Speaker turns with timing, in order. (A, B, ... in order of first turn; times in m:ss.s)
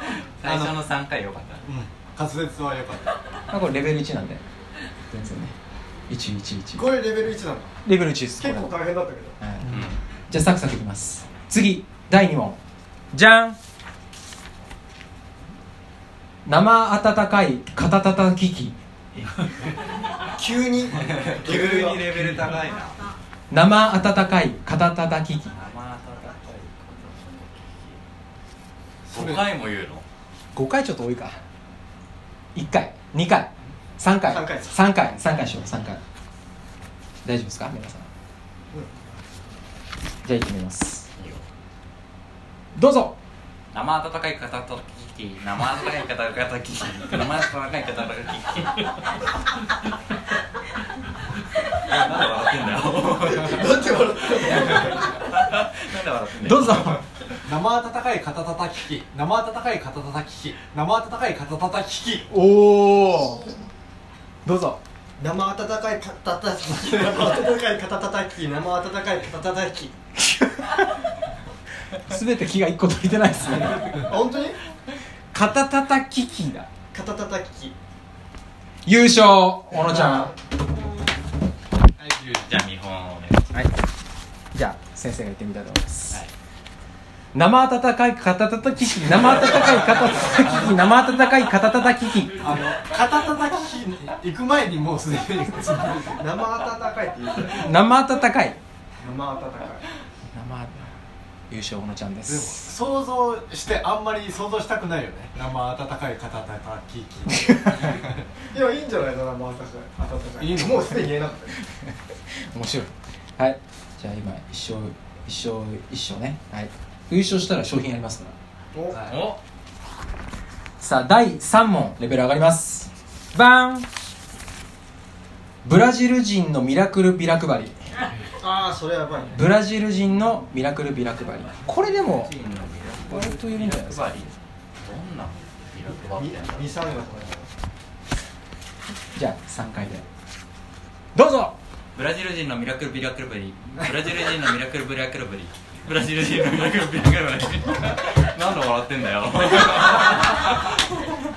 0:00.4-0:01.7 A
0:00.4-0:00.8 B
0:01.6-0:03.2 B
0:03.5-0:04.4 C
0:05.1-0:05.5 C
0:06.1-0:06.9 C
0:06.7-0:07.7 D
0:07.8-0:08.7 C
0:08.4-0:09.4 D
0:09.4-0:09.8 C
0:09.7-0:10.0 A
0:10.3-0:12.6 C
0:13.1-0:13.6 C
0:16.4-0:18.8 C
0:20.2-0:22.0 D
0:21.1-0:22.7 B
0:21.7-0:23.0 A
0:23.5-0:25.5 C
0:25.5-0:28.0 A
0:29.1-0:29.4 B
0:29.1-0:30.0 A
0:30.5-0:31.4 C
0:32.5-0:36.0 C
0:34.3-0:34.7 D
0:37.2-0:38.1 C
0:40.2-0:41.1 C
0:41.2-0:41.4 A
0:42.8-0:43.2 C
0:43.7-0:49.2 A
0:51.7-0:53.9 A
0:53.2-0:55.0 D
0:54.5-0:57.0 A
0:56.4-0:57.0 C
0:57.4-1:02.3 B
1:02.3-1:03.5 C
1:04.4-1:04.8 C
1:05.2-1:09.9 D
1:10.2-1:11.1 C
1:12.0-1:14.0 C
1:13.9-1:14.6 D
1:15.3-1:16.7 C
1:16.9-1:17.7 D
1:18.8-1:20.3 C
1:22.0-1:22.5 B
1:22.4-1:23.5 A
1:24.5-1:26.2 C
1:27.3-1:32.5 C
1:29.2-1:30.7 B
1:29.7-1:30.2 A
1:32.4-1:36.3 B
1:36.2-1:37.7 D
1:37.6-1:38.6 C
1:39.0-1:39.9 D
1:40.3-1:40.9 C
1:41.5-1:42.6 C
1:42.2-1:48.3 B
1:47.3-1:47.9 C
1:48.5-1:51.5 D
1:50.4-1:51.1 B
1:51.6-1:51.9 C
1:52.5-1:58.3 C
1:58.7-1:59.0 D
1:58.9-1:59.4 A
2:00.8-2:03.8 C
2:05.6-2:07.8 C
2:08.4-2:09.3 D
2:09.3-2:12.3 C
2:12.0-2:17.0 A
2:13.1-2:14.3 C
2:16.1-2:17.5 D
2:19.2-2:20.0 C
2:21.1-2:21.5 C
2:21.9-2:30.8 A